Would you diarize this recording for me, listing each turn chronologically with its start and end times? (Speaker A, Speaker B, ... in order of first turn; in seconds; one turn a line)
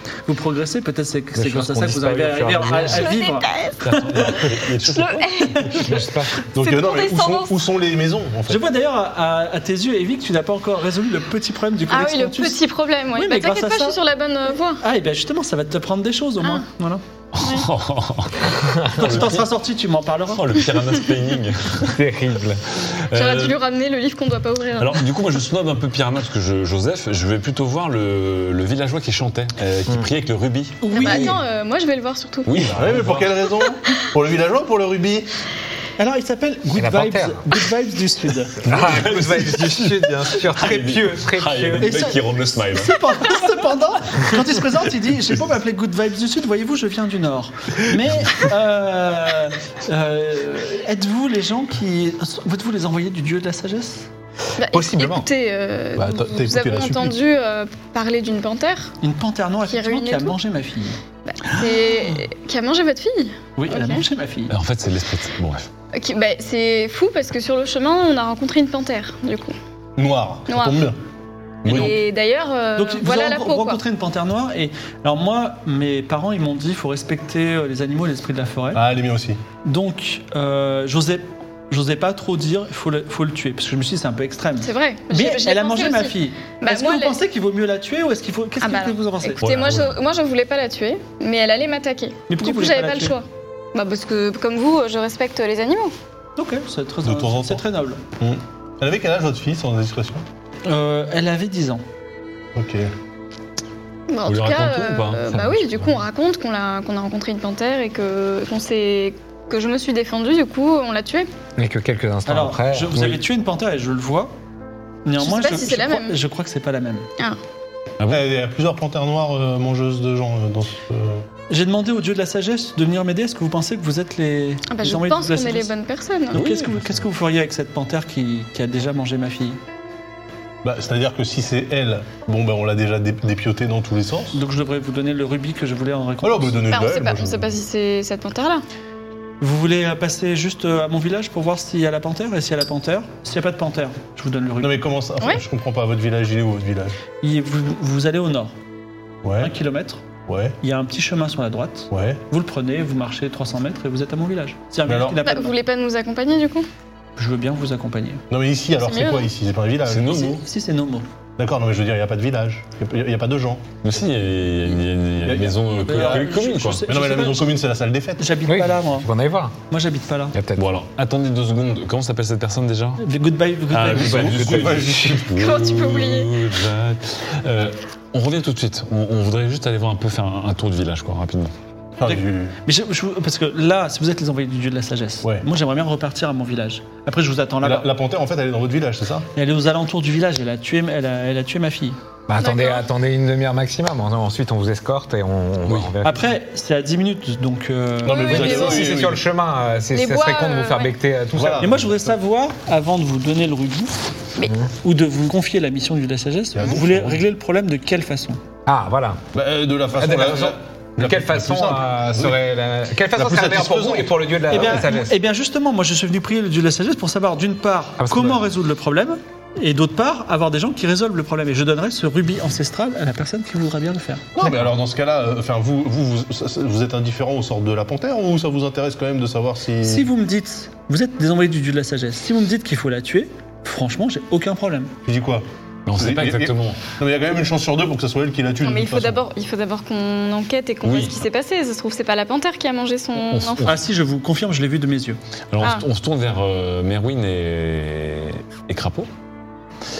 Speaker A: 0.3-4.3
Speaker B: 1.3-3.1
Speaker C: 2.8-6.0
Speaker D: 3.8-5.8
Speaker B: 5.8-6.4
Speaker E: 6.5-8.7
Speaker C: 6.5-7.6
Speaker A: 8.5-12.6
Speaker C: 11.9-14.8
Speaker A: 13.1-14.0
Speaker A: 14.8-17.0
Speaker D: 17.3-19.5
Speaker C: 17.4-17.7
Speaker A: 18.9-20.6
Speaker D: 20.3-22.0
Speaker B: 21.9-22.6
Speaker D: 22.9-23.6
Speaker C: 23.1-25.1
Speaker D: 24.8-31.3
Speaker A: 30.8-31.4
Speaker C: 30.9-32.7
Speaker D: 32.5-33.5
Speaker E: 32.7-35.3
Speaker A: 36.0-38.6
Speaker B: 36.7-37.6
Speaker B: 38.6-42.0
Speaker D: 38.6-43.3
Speaker A: 41.8-54.1
Speaker C: 54.6-58.9
Speaker B: 54.7-55.3
Speaker E: 56.0-57.2
Speaker A: 59.0-61.0
Speaker C: 59.7-60.3
Speaker C: 61.2-64.0
Speaker A: 63.6-64.5
Speaker D: 64.5-65.7
Speaker C: 65.9-69.5
Speaker E: 70.0-71.0
Speaker C: 70.5-70.8
Speaker D: 71.6-72.0
Speaker E: 71.7-72.0
Speaker C: 71.7-73.8
Speaker A: 72.8-78.8
Speaker E: 78.7-79.4
Speaker A: 79.6-89.4
Speaker C: 84.6-87.2
Speaker C: 88.6-95.9
Speaker D: 89.4-90.0
Speaker A: 92.3-93.2
Speaker A: 96.4-98.0
Speaker E: 97.0-97.6
Speaker E: 98.2-100.2
Speaker A: 100.6-101.8
Speaker E: 102.5-102.9
Speaker C: 104.1-111.3
Speaker D: 104.2-105.9
Speaker B: 111.6-113.2
Speaker A: 112.3-114.3
Speaker A: 115.0-117.1
Speaker C: 115.2-116.2
Speaker E: 118.1-121.2
Speaker A: 121.5-125.7
Speaker C: 124.7-126.5
Speaker A: 126.3-129.6
Speaker D: 126.3-127.0
Speaker E: 130.6-134.4
Speaker A: 134.3-136.6
Speaker E: 136.2-137.5
Speaker C: 136.7-138.6
Speaker A: 139.4-144.9
Speaker E: 144.6-147.0
Speaker A: 147.2-148.5
Speaker E: 149.2-149.5
Speaker A: 149.4-150.0
Speaker E: 150.3-150.6
Speaker A: 150.6-155.6
Speaker E: 151.9-152.2
Speaker E: 154.8-155.2
Speaker C: 155.2-156.7
Speaker A: 157.2-158.2
Speaker E: 158.3-160.4
Speaker C: 158.8-159.3
Speaker D: 159.8-160.4
Speaker A: 160.2-161.1
Speaker E: 161.4-163.6
Speaker D: 163.8-166.8
Speaker E: 165.2-166.3
Speaker A: 165.9-167.5
Speaker E: 166.8-168.3
Speaker A: 168.2-169.1
Speaker B: 168.5-169.6
Speaker A: 169.7-170.3
Speaker B: 170.3-170.7
Speaker D: 170.6-173.0
Speaker A: 173.0-174.6
Speaker D: 173.7-181.5
Speaker E: 173.9-175.3
Speaker C: 175.3-176.3
Speaker E: 182.0-182.5
Speaker A: 182.0-187.9
Speaker E: 187.6-189.3
Speaker A: 189.3-191.9
Speaker B: 192.3-196.3
Speaker C: 192.4-192.8
Speaker D: 195.6-195.9
Speaker A: 196.0-198.8
Speaker E: 198.0-199.2
Speaker C: 198.1-198.9
Speaker B: 198.3-201.8
Speaker C: 199.9-200.9
Speaker E: 201.3-202.1
Speaker A: 201.6-204.1
Speaker A: 204.8-208.4
Speaker E: 206.6-207.2
Speaker B: 208.7-209.2
Speaker E: 209.3-212.4
Speaker B: 209.9-215.2
Speaker E: 213.1-214.8
Speaker A: 214.5-224.3
Speaker B: 218.0-218.5
Speaker E: 224.3-230.1
Speaker A: 229.8-234.9
Speaker E: 235.1-235.4
Speaker D: 235.9-236.8
Speaker E: 236.0-239.2
Speaker C: 238.6-243.7
Speaker D: 240.8-241.2
Speaker D: 243.3-243.8
Speaker A: 243.6-245.2
Speaker D: 245.5-249.1
Speaker C: 245.6-245.8